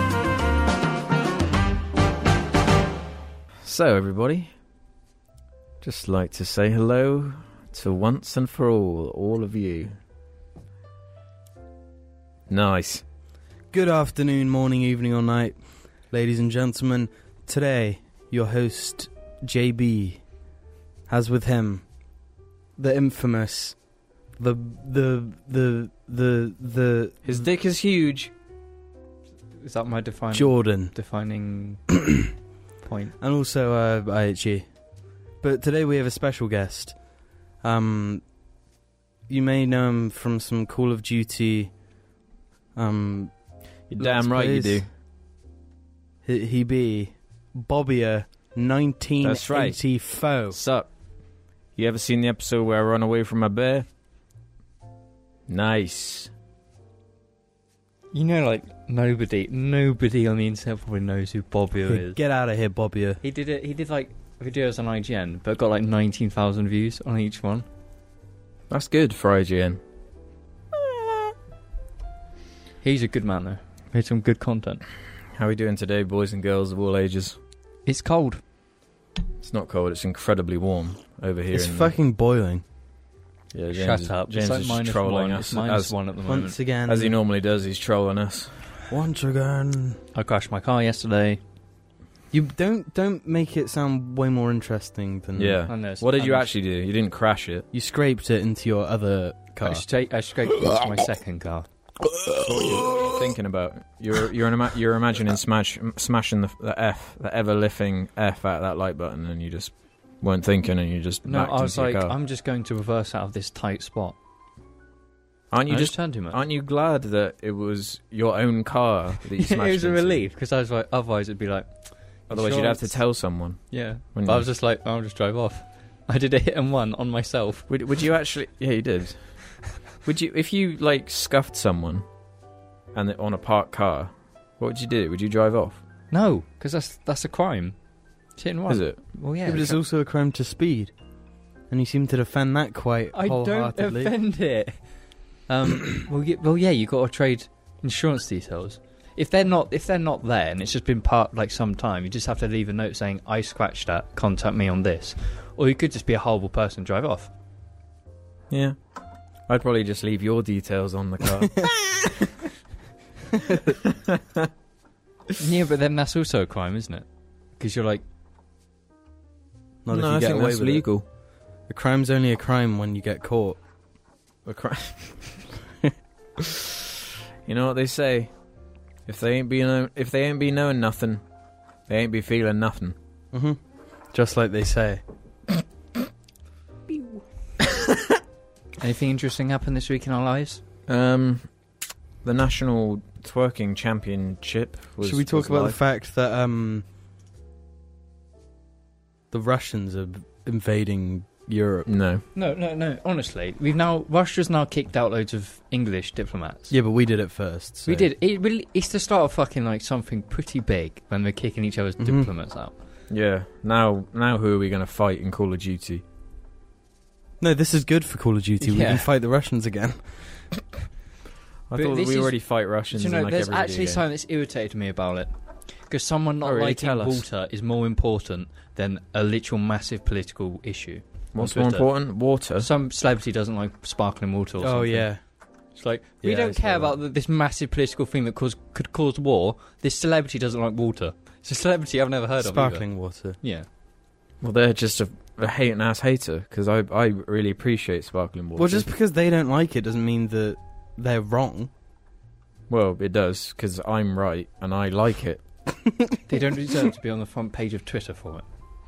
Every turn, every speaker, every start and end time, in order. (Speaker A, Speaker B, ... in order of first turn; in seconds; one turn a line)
Speaker A: 3.6-4.5
Speaker A: 5.8-10.0
Speaker A: 12.5-13.0
Speaker B: 13.7-15.6
Speaker B: 16.1-20.2
Speaker B: 21.1-21.8
Speaker B: 22.8-23.8
Speaker B: 24.4-27.4
Speaker A: 27.2-28.3
Speaker C: 29.6-31.9
Speaker B: 30.3-30.9
Speaker C: 32.8-33.1
Speaker B: 33.2-34.7
Speaker B: 35.4-37.0
Speaker B: 37.6-38.2
Speaker B: 39.3-41.7
Speaker B: 42.8-43.3
Speaker A: 43.9-44.9
Speaker B: 44.0-44.8
Speaker B: 46.2-50.6
Speaker A: 49.2-49.9
Speaker A: 50.5-50.9
Speaker A: 51.8-53.9
Speaker A: 55.5-56.3
Speaker C: 58.1-62.2
Speaker B: 61.9-63.2
Speaker C: 63.2-67.7
Speaker A: 68.7-69.8
Speaker C: 72.8-74.8
Speaker A: 75.3-77.4
Speaker C: 77.9-78.4
Speaker A: 79.4-81.9
Speaker B: 81.5-82.6
Speaker A: 83.5-85.9
Speaker C: 83.8-86.6
Speaker B: 86.3-87.1
Speaker A: 86.9-88.5
Speaker B: 88.9-90.0
Speaker C: 90.2-91.4
Speaker B: 92.3-95.6
Speaker A: 95.4-97.7
Speaker C: 95.7-96.5
Speaker B: 97.7-99.8
Speaker C: 99.6-101.7
Speaker A: 102.5-112.2
Speaker B: 102.7-103.1
Speaker C: 111.2-114.2
Speaker A: 115.5-120.2
Speaker C: 115.7-116.4
Speaker C: 119.4-121.7
Speaker C: 122.3-123.0
Speaker A: 122.3-124.5
Speaker C: 123.7-127.7
Speaker A: 127.7-129.2
Speaker A: 130.1-132.1
Speaker A: 132.9-135.8
Speaker C: 136.1-137.8
Speaker C: 138.4-139.8
Speaker A: 138.7-139.0
Speaker B: 139.4-140.9
Speaker B: 141.7-144.1
Speaker C: 143.1-144.8
Speaker C: 145.5-157.3
Speaker A: 158.5-158.8
Speaker A: 159.5-162.1
Speaker B: 163.3-163.8
Speaker A: 163.8-164.5
Speaker C: 165.4-167.1
Speaker C: 167.6-168.0
Speaker B: 169.8-170.9
Speaker A: 169.9-171.0
Speaker B: 171.7-173.6
Speaker A: 174.4-175.4
Speaker A: 176.4-176.7
Speaker A: 177.4-178.3
Speaker A: 179.1-181.2
Speaker A: 181.9-183.0
Speaker B: 183.3-183.6
Speaker B: 184.1-185.0
Speaker C: 188.8-190.6
Speaker A: 190.9-191.5
Speaker A: 192.2-195.8
Speaker B: 195.0-196.8
Speaker B: 199.3-201.9
Speaker A: 201.9-202.2
Speaker C: 202.3-206.7
Speaker B: 206.7-208.1
Speaker C: 207.9-212.8
Speaker B: 212.0-212.3
Speaker A: 213.1-216.0
Speaker B: 217.4-220.4
Speaker C: 218.6-219.1
Speaker A: 221.7-224.0
Speaker C: 221.7-222.4
Speaker C: 222.9-225.3
Speaker C: 225.9-231.9
Speaker A: 226.4-227.3
Speaker A: 231.3-232.7
Speaker C: 232.6-235.1
Speaker B: 234.6-235.2
Speaker C: 235.8-242.9
Speaker B: 236.2-237.0
Speaker B: 242.4-243.4
Speaker C: 243.4-243.7
Speaker A: 244.4-248.9
Speaker B: 248.6-251.7
Speaker A: 252.7-255.4
Speaker C: 256.3-258.4